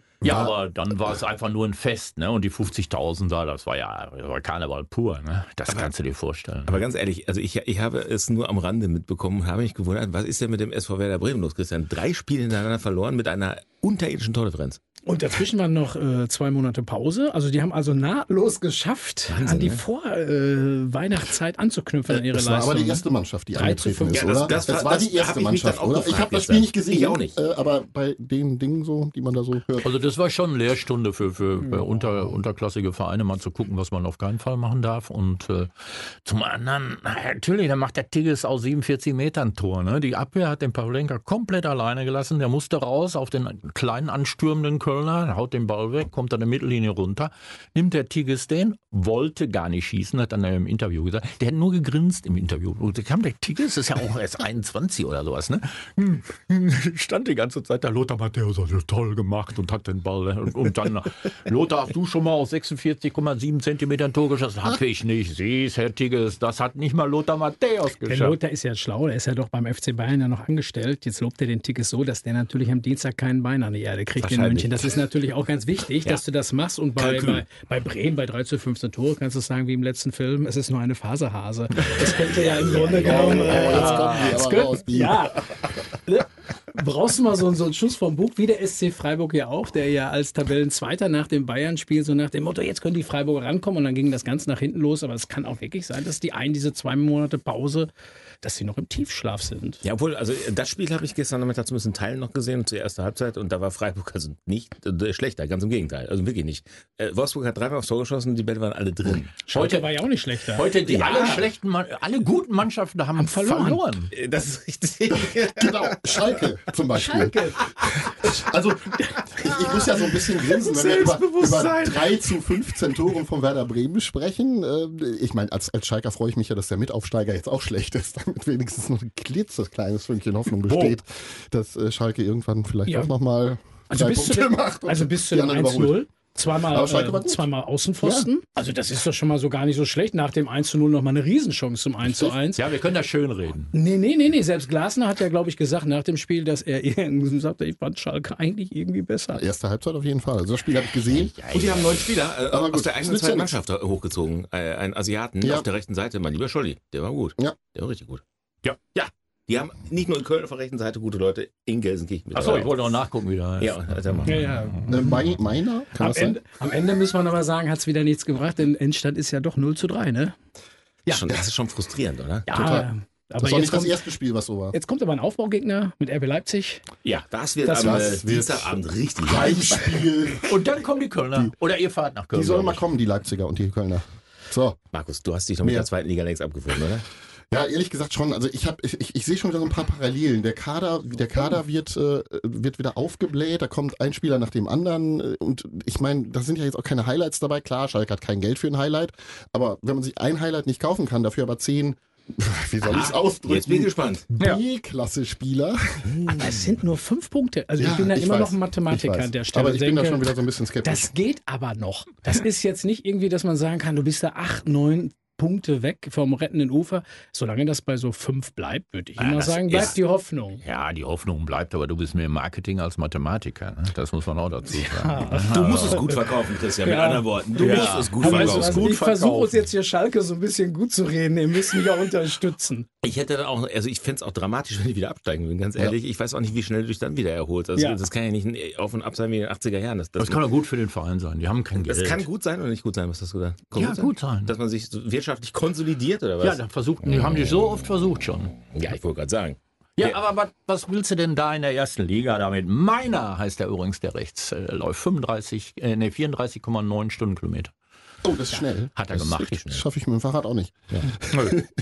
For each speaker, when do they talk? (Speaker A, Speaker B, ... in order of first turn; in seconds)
Speaker A: 0.2-6.8, 29.8-68.4, 74.2-74.8, 83.5-84.4, 109.5-114.1, 130.7-131.0, 142.6-143.7, 151.1-152.1, 162.3-164.9, 180.4-182.8, 219.2-219.9, 220.6-226.1, 227.6-229.6, 240.2-242.3, 243.8-244.5, 246.4-248.6, 250.0-257.7, 258.9-259.8, 261.3-261.6
Speaker B: 0.2-0.5, 22.1-29.9, 83.0-85.3, 115.1-136.0, 136.6-137.5, 138.0-138.3, 142.1-142.3, 149.3-151.4, 152.5-153.6, 155.4-155.7, 164.9-166.4, 172.5-172.9, 173.4-174.8, 177.7-180.6, 182.3-184.8, 185.6-185.9, 187.5-206.4, 207.8-211.1, 258.2-261.6
Speaker C: 6.7-14.8, 19.3-19.8, 24.1-27.4, 77.0-77.4, 81.8-84.3, 99.8-109.4, 110.8-111.5, 114.1-116.4, 117.9-118.3, 119.5-122.1, 151.5-158.2, 158.9-162.9, 163.6-164.4, 171.1-172.5, 177.0-180.1, 184.9-187.1, 202.8-204.3, 206.1-206.6, 225.5-228.9, 233.0-240.4, 241.8-247.8, 248.6-250.2
Speaker D: 15.1-24.7, 68.1-85.5, 86.1-97.9, 98.4-99.8, 109.5-110.7, 113.2-113.8, 116.9-117.7, 132.9-133.1, 133.9-142.6, 143.7-149.4, 164.3-165.0, 166.0-170.4, 172.5-174.0, 174.7-176.8, 177.7-178.1, 206.4-210.3, 210.8-220.6, 224.7-226.2, 226.8-232.9, 237.8-238.0